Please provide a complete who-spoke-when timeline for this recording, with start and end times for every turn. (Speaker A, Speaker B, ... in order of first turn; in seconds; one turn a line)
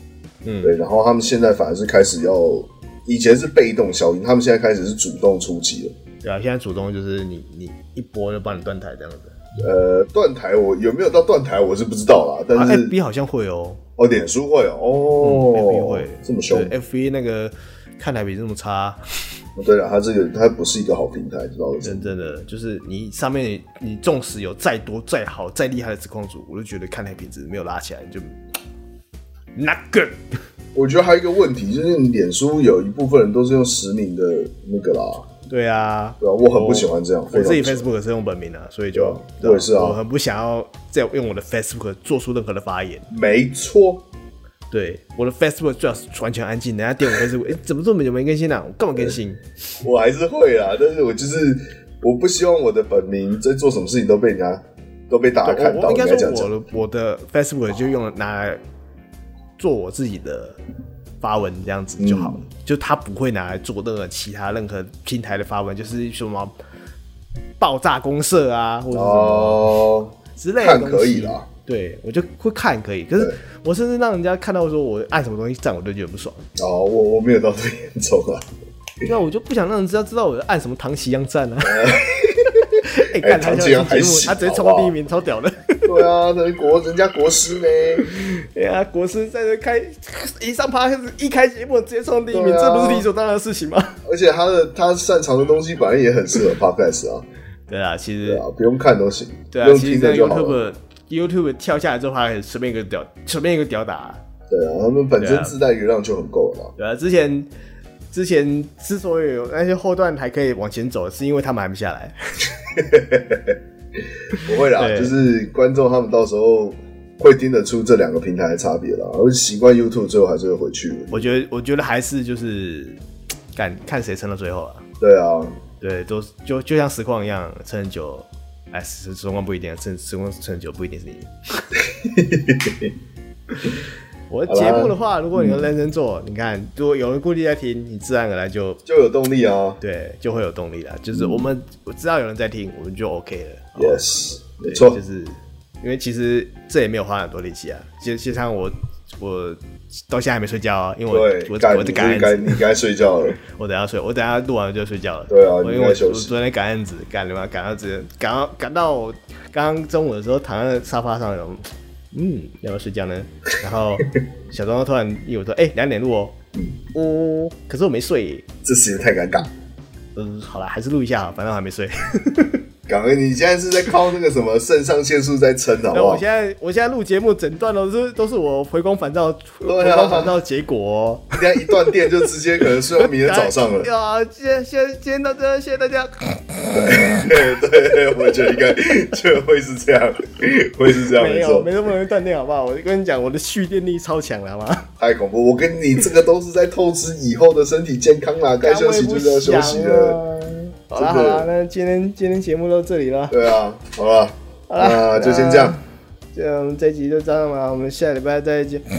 Speaker A: 0.4-0.8
Speaker B: 0.6-5.9
Speaker A: 6.2-9.3
Speaker B: 9.6-12.9
Speaker A: 12.5-13.8
Speaker B: 14.0-16.7
Speaker A: 15.2-19.0
Speaker B: 19.6-22.1
Speaker A: 21.8-28.3
Speaker A: 29.6-30.4
Speaker B: 30.7-35.2
Speaker A: 35.5-43.1
Speaker B: 36.2-37.9
Speaker B: 38.9-40.0
Speaker B: 43.1-44.0
Speaker A: 44.7-49.4
Speaker B: 49.8-56.5
Speaker A: 55.4-58.6
Speaker A: 59.6-60.6
Speaker A: 61.2-66.5
Speaker B: 62.0-62.4
Speaker A: 67.6-69.7
Speaker B: 68.9-71.5
Speaker A: 70.4-76.5
Speaker B: 76.5-78.5
Speaker A: 79.0-82.0
Speaker B: 81.6-84.9
Speaker A: 82.8-86.0
Speaker B: 85.8-88.0
Speaker A: 88.0-94.0
Speaker B: 92.3-93.1
Speaker B: 94.0-97.2
Speaker A: 97.7-98.4
Speaker B: 98.2-100.6
Speaker A: 99.5-104.2
Speaker B: 104.5-106.7
Speaker A: 105.2-105.5
Speaker A: 106.8-107.5
Speaker A: 108.1-112.5
Speaker B: 112.7-113.6
Speaker A: 114.3-115.2
Speaker B: 114.3-121.3
Speaker A: 121.1-123.0
Speaker A: 123.5-124.8
Speaker B: 125.0-125.6
Speaker A: 125.8-131.6
Speaker B: 131.7-132.9
Speaker A: 134.3-138.8
Speaker B: 134.5-135.7
Speaker B: 138.8-139.8
Speaker A: 139.8-144.0
Speaker B: 141.1-141.5
Speaker B: 143.8-145.0
Speaker A: 144.6-152.6
Speaker B: 151.1-153.4
Speaker A: 153.5-166.4
Speaker B: 155.3-156.3
Speaker A: 166.9-168.4
Speaker B: 168.6-169.5
Speaker A: 170.2-172.6
Speaker B: 172.9-176.2
Speaker A: 175.9-181.9
Speaker B: 179.6-180.3
Speaker B: 181.3-183.9
Speaker A: 183.0-186.1
Speaker A: 186.6-187.3
Speaker B: 186.7-191.7
Speaker A: 191.1-194.9
Speaker B: 195.0-200.2
Speaker A: 198.6-203.4
Speaker B: 200.9-201.5
Speaker B: 203.3-205.8
Speaker A: 204.7-205.8
Speaker A: 206.3-208.8